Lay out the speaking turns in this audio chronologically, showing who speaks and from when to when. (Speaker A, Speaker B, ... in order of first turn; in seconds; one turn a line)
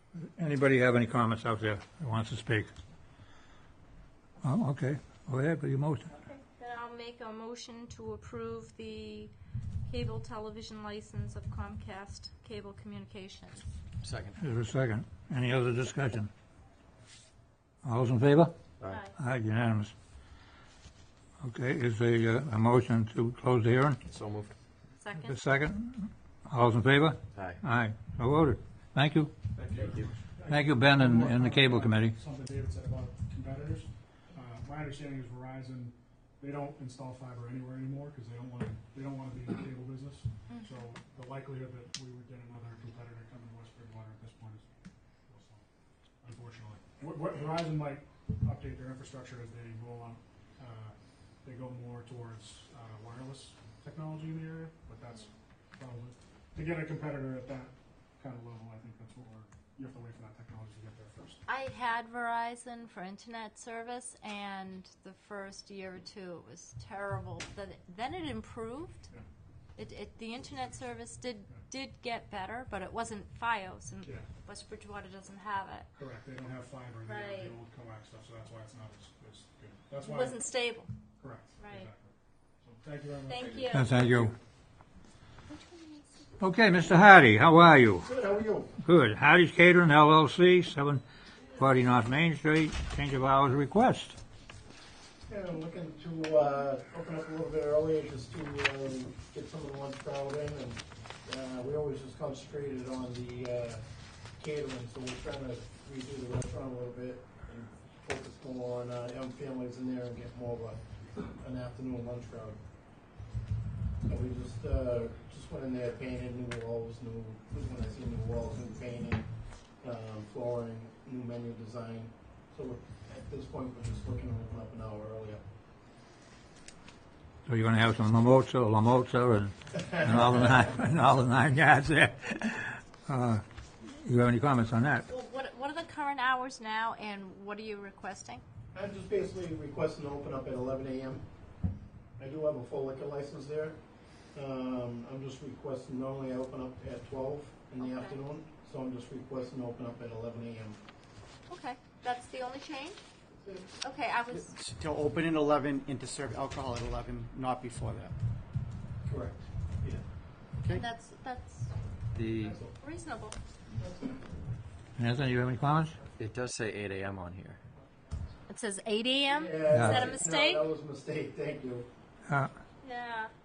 Speaker A: 0.2-2.7
Speaker A: 4.4-6.0
Speaker B: 6.2-9.3
Speaker B: 9.9-13.7
Speaker C: 14.0-14.3
Speaker A: 14.4-16.3
Speaker A: 17.8-18.5
Speaker C: 18.8-19.1
Speaker B: 18.9-19.1
Speaker A: 19.1-19.9
Speaker A: 21.4-24.0
Speaker C: 24.0-24.5
Speaker B: 25.0-25.4
Speaker A: 25.3-29.3
Speaker C: 27.3-27.6
Speaker D: 29.6-44.6
Speaker A: 30.5-32.1
Speaker B: 40.5-40.8
Speaker D: 45.3-45.6
Speaker D: 46.2-61.4
Speaker B: 61.5-69.1
Speaker B: 69.8-75.9
Speaker D: 76.0-80.4
Speaker B: 77.0-77.5
Speaker B: 80.0-80.9
Speaker D: 81.2-84.3
Speaker B: 81.6-81.9
Speaker B: 83.2-83.9
Speaker A: 83.7-84.3
Speaker B: 85.5-86.3
Speaker A: 86.4-88.1
Speaker E: 88.0-88.7
Speaker A: 88.8-91.0
Speaker A: 91.5-94.2
Speaker E: 95.3-103.8
Speaker E: 104.4-112.6
Speaker E: 114.0-119.3
Speaker E: 119.8-125.4
Speaker A: 127.5-133.4
Speaker E: 129.8-130.3
Speaker A: 134.0-135.0
Speaker B: 135.1-138.4
Speaker E: 138.7-141.2
Speaker E: 142.2-143.8
Speaker E: 144.3-150.8
Speaker B: 147.8-148.2
Speaker B: 151.5-153.0
Speaker E: 153.3-153.7
Speaker B: 153.8-154.5
Speaker F: 154.3-158.1
Speaker E: 159.0-160.0
Speaker B: 160.7-161.7
Speaker C: 162.1-162.6
Speaker E: 162.4-162.7
Speaker B: 162.8-163.3
Speaker E: 163.8-164.2
Speaker A: 165.0-166.0
Speaker C: 166.2-167.6
Speaker B: 168.5-170.7
Speaker E: 169.3-171.9
Speaker A: 169.7-170.1
Speaker B: 172.8-173.3